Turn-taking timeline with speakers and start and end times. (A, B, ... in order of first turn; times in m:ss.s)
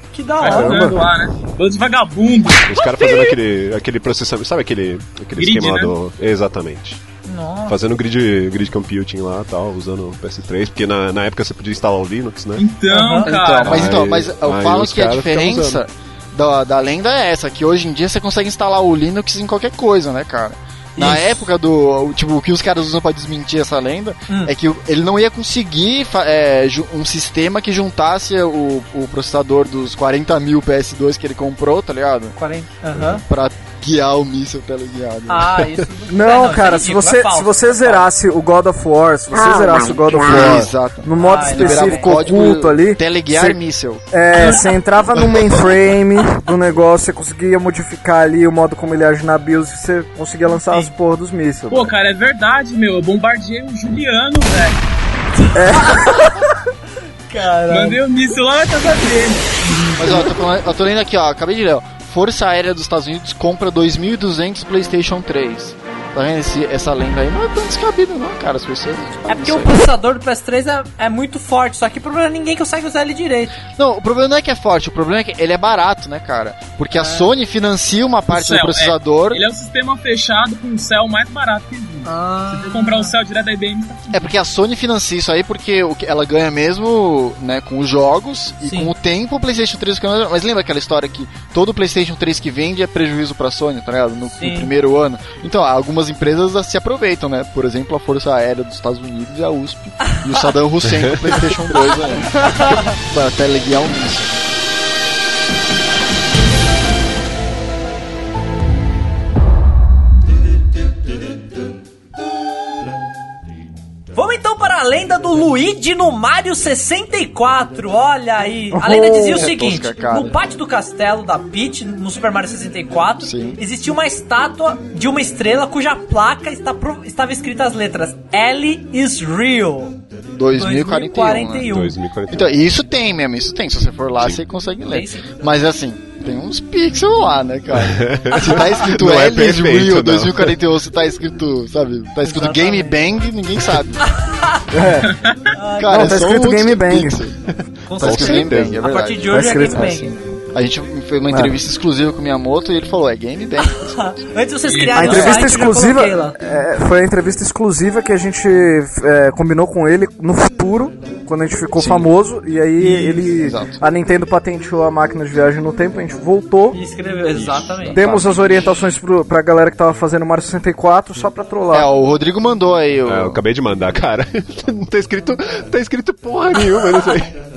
0:00.1-0:00.9 A
0:00.4-0:02.6 B
0:00.5-0:01.0 C
0:02.6-0:07.0 D
0:02.8-0:03.3 A
0:05.4-0:05.9 B
0:07.3-0:07.8 A
0:07.7-0:12.6 D
0:12.6-0:13.9 B
0:12.9-0:13.3 A
0:13.2-0:32.3 E
0:13.6-0:15.8 D
0:21.0-0:21.4 A
0:32.4-0:33.2 A
0:33.0-0:35.6 E
0:35.3-0:38.1 A
0:36.1-0:43.6 C
0:39.3-0:44.1 E
0:41.2-0:42.1 A
0:44.1-0:51.9 C
0:44.4-0:44.7 B
0:45.2-0:45.7 E
0:51.7-0:54.8 B
0:55.4-0:56.4 A
0:55.5-0:56.4 C
0:57.3-0:58.0 A
0:57.7-1:00.2 B
1:00.0-1:09.8 E
1:09.3-1:13.6 A
1:13.7-1:19.4 E
1:16.9-1:17.3 A
1:18.3-1:24.2 B
1:22.0-1:23.1 A
1:24.1-1:44.5 E
1:28.6-1:28.9 A
1:34.4-1:34.7 A
1:40.9-1:41.4 D
1:41.8-1:42.9 A
1:54.1-2:10.0 A
1:58.7-1:59.5 C
1:59.3-2:00.4 E
2:03.2-2:03.6 E
2:10.3-2:11.7 E
2:10.5-2:12.0 A
2:11.6-2:12.6 D
2:12.3-2:24.0 E
2:14.9-2:15.4 A
2:17.8-2:20.6 D
2:18.3-2:18.8 A
2:22.2-2:23.0 A
2:24.0-2:24.6 A
2:24.7-2:25.1 C
2:25.0-2:25.5 B
2:25.5-2:26.2 A
2:25.8-2:27.4 E
2:25.9-2:27.2 C
2:27.5-2:28.8 D
2:27.8-2:30.1 A
2:28.0-2:34.0 E
2:29.3-2:30.0 C
2:33.6-2:36.4 A
2:34.7-2:35.3 B
2:34.9-2:46.8 C
2:35.0-2:35.5 E
2:41.8-2:42.1 E
2:42.8-2:43.8 E
2:46.7-2:48.0 A
2:47.3-2:48.8 E
2:47.9-2:51.9 C
2:51.7-2:53.4 E
2:53.1-2:57.4 D